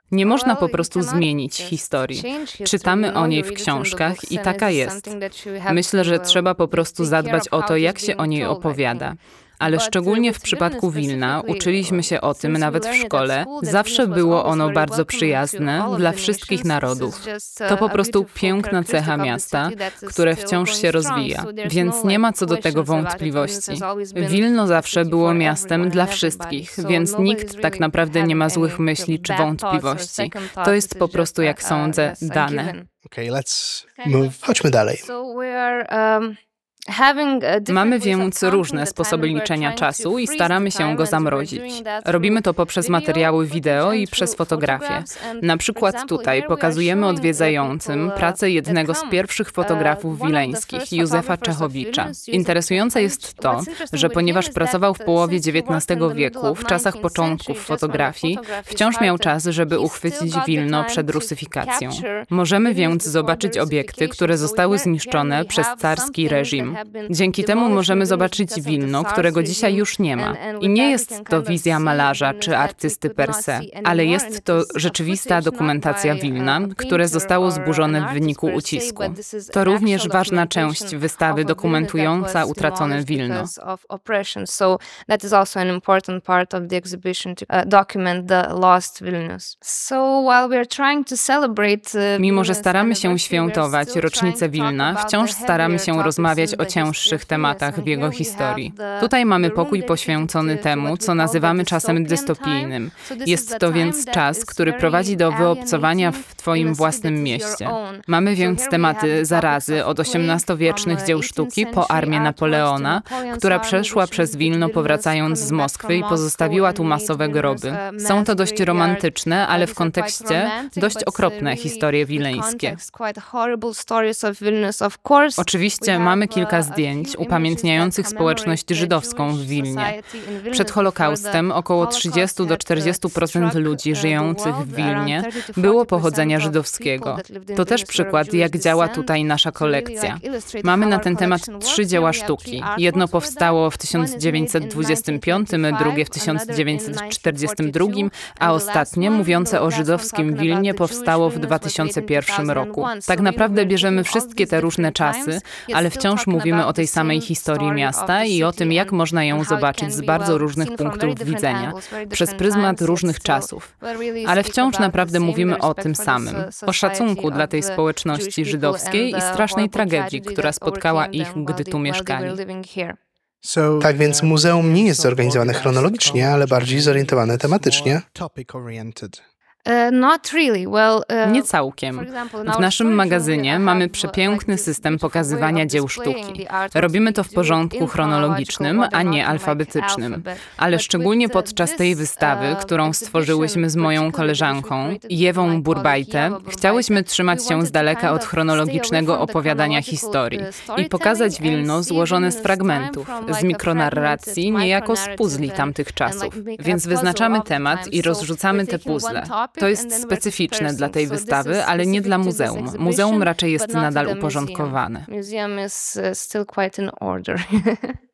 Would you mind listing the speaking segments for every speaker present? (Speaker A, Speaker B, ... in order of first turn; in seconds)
Speaker A: 0.1-5.1, 5.7-32.8, 37.7-83.5, 92.2-122.8, 125.4-129.9, 130.5-172.4, 181.2-215.1
Speaker B: 0.2-32.9, 34.0-34.4, 34.9-36.4, 36.9-173.0, 179.7-218.0
Speaker C: 33.0-34.3, 173.4-179.2
Speaker D: 34.3-35.0, 173.8-178.0